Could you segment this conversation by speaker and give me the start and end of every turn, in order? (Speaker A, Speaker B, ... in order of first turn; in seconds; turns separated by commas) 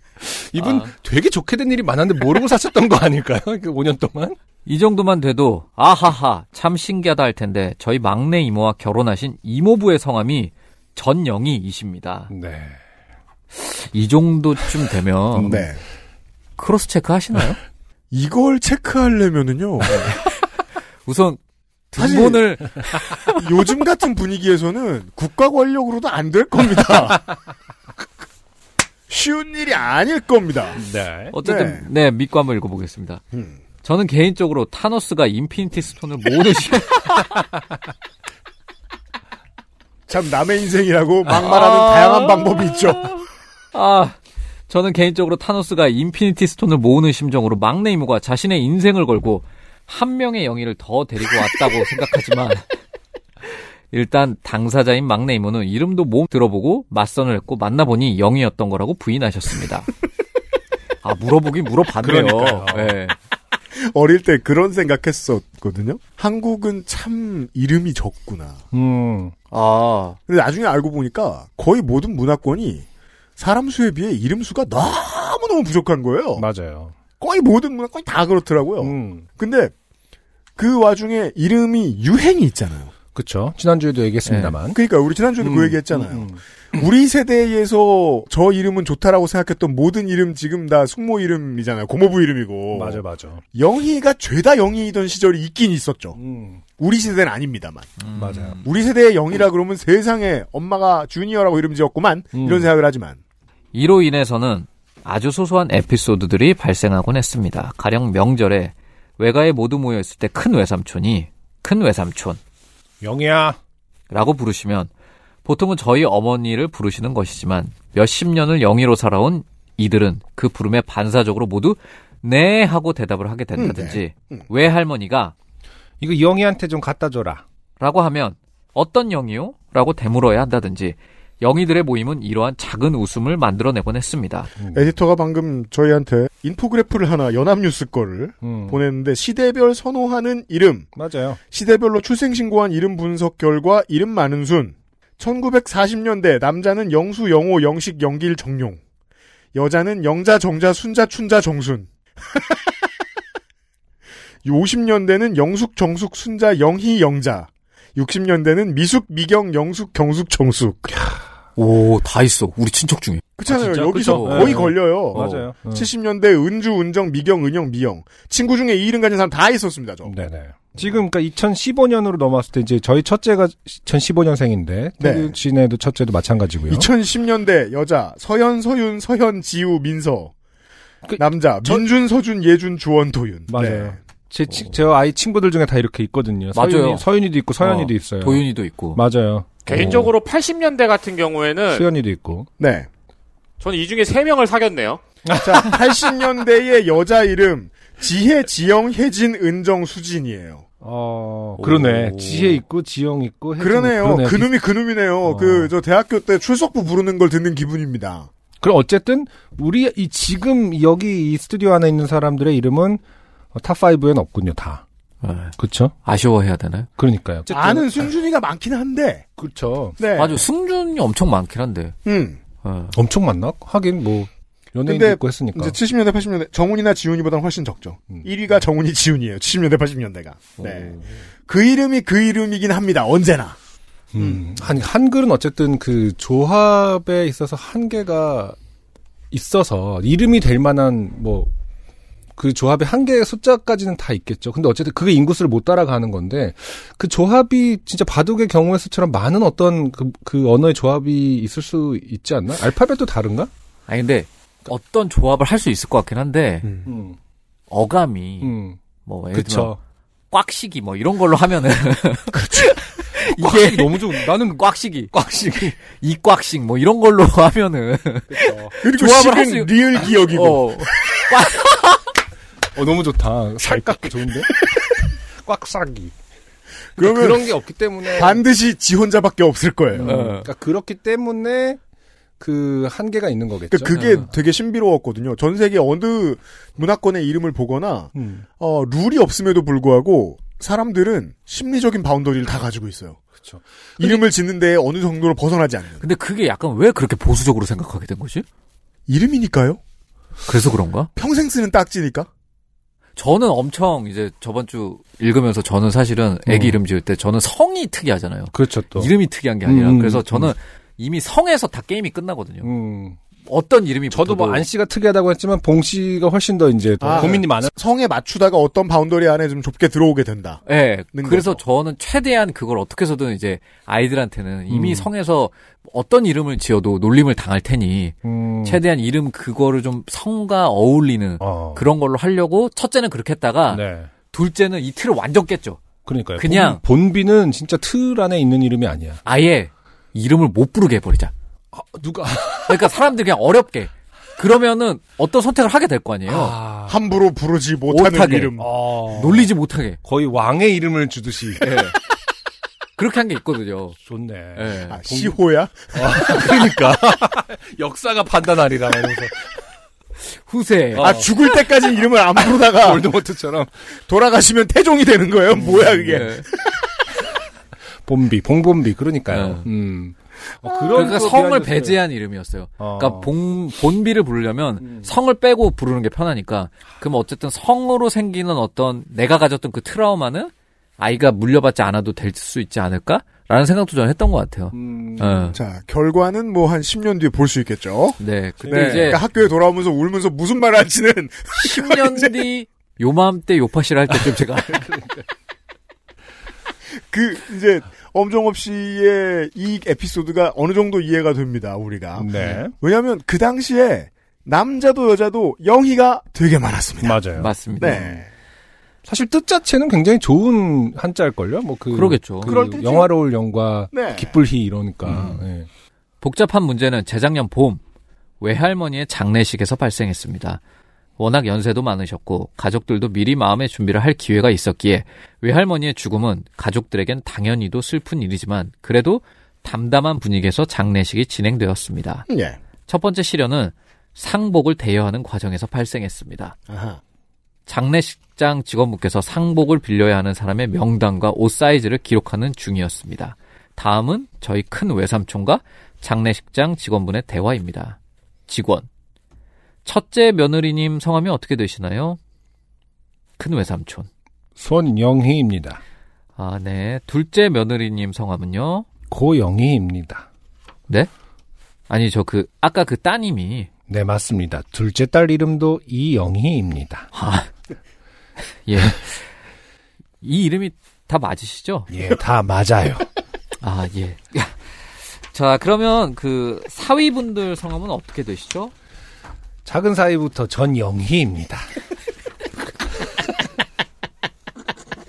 Speaker A: 0.2-4.4, Speaker B: 0.6-0.9, Speaker B: 4.7-12.3, Speaker A: 12.3-12.8, Speaker B: 13.5-15.6, Speaker A: 15.3-15.7, Speaker C: 15.4-15.8, Speaker B: 16.6-17.6, Speaker C: 18.1-20.1, Speaker B: 19.9-20.4, Speaker B: 21.1-21.4, Speaker B: 21.9-23.4, Speaker C: 22.0-22.4, Speaker C: 23.4-27.3, Speaker C: 29.1-30.8, Speaker A: 30.8-31.3, Speaker B: 31.3-33.2, Speaker C: 31.4-31.9, Speaker B: 33.8-37.5, Speaker C: 40.1-43.2, Speaker B: 41.3-44.2, Speaker B: 44.7-52.8, Speaker B: 53.5-59.9, Speaker B: 61.0-63.2, Speaker A: 62.0-63.0, Speaker C: 63.8-68.6, Speaker A: 68.7-69.3, Speaker B: 69.5-70.2, Speaker C: 70.3-72.8, Speaker C: 73.4-76.5, Speaker A: 76.4-77.0, Speaker C: 77.2-79.7, Speaker A: 78.8-79.3, Speaker C: 80.6-82.9, Speaker A: 83.2-84.8, Speaker B: 84.3-84.6, Speaker C: 84.7-93.0, Speaker A: 85.4-86.4, Speaker A: 92.7-93.4, Speaker C: 93.5-96.2, Speaker A: 96.2-96.6, Speaker C: 96.8-97.9, Speaker B: 98.0-98.7, Speaker A: 98.1-98.6, Speaker C: 98.6-103.2, Speaker A: 102.3-102.7, Speaker B: 103.7-112.4, Speaker A: 113.0-113.6, Speaker B: 114.1-114.9, Speaker B: 115.5-125.3, Speaker C: 123.6-124.5, Speaker A: 126.0-127.4, Speaker B: 127.8-134.5, Speaker A: 134.6-134.9, Speaker C: 134.7-140.9, Speaker A: 138.4-138.8, Speaker A: 140.9-141.4, Speaker C: 141.5-148.8, Speaker C: 149.5-152.6, Speaker C: 154.4-161.1, Speaker B: 161.6-164.6, Speaker C: 163.4-170.1, Speaker A: 163.5-165.9, Speaker A: 170.0-176.9, Speaker C: 175.0-175.3, Speaker C: 176.7-180.3, Speaker A: 181.1-181.9, Speaker C: 181.2-184.0, Speaker A: 183.5-190.1, Speaker B: 186.5-187.1, Speaker B: 187.6-189.0, Speaker D: 189.7-191.9, Speaker A: 191.7-192.5, Speaker C: 192.6-192.9, Speaker D: 193.6-195.0, Speaker A: 195.2-195.8, Speaker C: 195.3-200.7, Speaker A: 200.8-204.6, Speaker B: 201.6-202.6, Speaker C: 203.6-208.3, Speaker A: 205.2-205.7, Speaker A: 208.6-213.0, Speaker A: 213.5-214.8, Speaker B: 215.2-216.9, Speaker A: 215.6-215.9, Speaker A: 217.0-218.1, Speaker C: 217.5-219.3, Speaker A: 219.4-220.0, Speaker C: 220.0-220.4, Speaker B: 220.2-221.9, Speaker C: 222.1-222.4, Speaker B: 222.6-222.9, Speaker A: 222.9-225.8, Speaker C: 224.9-233.6, Speaker B: 230.6-231.1, Speaker A: 234.1-238.6, Speaker A: 239.3-241.5, Speaker A: 242.4-253.5, Speaker B: 253.9-256.6, Speaker C: 256.6-256.9, Speaker A: 256.9-257.2, Speaker B: 257.7-258.5, Speaker A: 258.4-258.8, Speaker B: 259.1-259.7, Speaker A: 259.3-259.8, Speaker B: 260.3-262.4, Speaker C: 262.3-262.8, Speaker B: 263.0-272.0, Speaker A: 263.1-265.8, Speaker A: 268.3-268.7, Speaker C: 268.8-271.2, Speaker A: 272.7-274.6, Speaker A: 275.4-276.1, Speaker A: 277.0-278.4, Speaker C: 277.0-277.5, Speaker C: 278.1-280.3, Speaker A: 279.9-281.8, Speaker B: 280.0-280.5, Speaker A: 282.4-284.3, Speaker C: 283.7-293.2, Speaker A: 288.1-288.4, Speaker A: 293.4-294.2, Speaker C: 294.0-296.0, Speaker B: 296.0-298.4, Speaker C: 299.1-299.8, Speaker B: 300.5-301.1, Speaker C: 301.2-302.3, Speaker B: 303.2-312.7, Speaker A: 306.5-306.8, Speaker A: 308.5-309.1, Speaker A: 309.6-310.5, Speaker A: 312.6-313.2, Speaker B: 313.5-314.7, Speaker A: 314.1-317.7, Speaker C: 317.0-321.6, Speaker B: 320.7-335.8, Speaker A: 324.7-325.1, Speaker A: 328.2-328.8, Speaker A: 331.4-331.9, Speaker A: 333.7-334.1, Speaker A: 336.1-339.2, Speaker B: 336.4-336.8, Speaker B: 339.2-341.3, Speaker A: 341.7-342.9, Speaker B: 342.7-346.6, Speaker A: 346.3-347.0, Speaker C: 346.9-348.7, Speaker B: 347.9-348.6, Speaker A: 348.6-349.5, Speaker B: 349.1-350.0, Speaker A: 350.0-351.8, Speaker B: 351.6-352.0, Speaker B: 353.0-354.0, Speaker A: 354.0-355.4, Speaker B: 354.6-355.0, Speaker C: 354.9-356.3, Speaker A: 355.9-359.6, Speaker B: 360.5-361.2, Speaker A: 360.9-361.4, Speaker C: 361.0-363.1, Speaker A: 362.4-363.7, Speaker C: 364.1-366.4, Speaker A: 365.5-366.3, Speaker B: 366.1-366.5, Speaker A: 368.1-372.0, Speaker B: 369.3-369.7, Speaker B: 370.9-385.6, Speaker A: 372.8-373.3, Speaker A: 374.8-375.1, Speaker A: 384.7-385.6, Speaker C: 385.5-392.4, Speaker B: 388.2-389.2, Speaker A: 388.6-389.2, Speaker B: 391.6-394.9, Speaker A: 394.1-395.2, Speaker C: 397.1-407.2, Speaker A: 402.2-402.7, Speaker A: 407.0-408.0, Speaker B: 407.4-408.2, Speaker C: 407.8-408.3, Speaker A: 409.1-415.7, Speaker B: 411.9-412.6, Speaker C: 412.4-413.1, Speaker C: 413.9-414.4, Speaker B: 416.2-417.8, Speaker B: 418.4-420.6, Speaker B: 421.2-432.3, Speaker C: 432.3-432.6, Speaker B: 432.9-436.6, Speaker C: 436.7-437.0, Speaker B: 437.7-448.0, Speaker B: 448.5-448.9, Speaker B: 449.9-452.2, Speaker B: 453.4-454.1, Speaker A: 454.6-455.8, Speaker B: 456.4-458.9, Speaker A: 459.1-460.3, Speaker B: 461.9-463.7, Speaker A: 463.9-467.1, Speaker B: 467.1-467.5, Speaker B: 468.7-469.2, Speaker B: 470.2-471.9, Speaker A: 471.9-473.1, Speaker B: 473.6-478.7, Speaker A: 479.6-481.7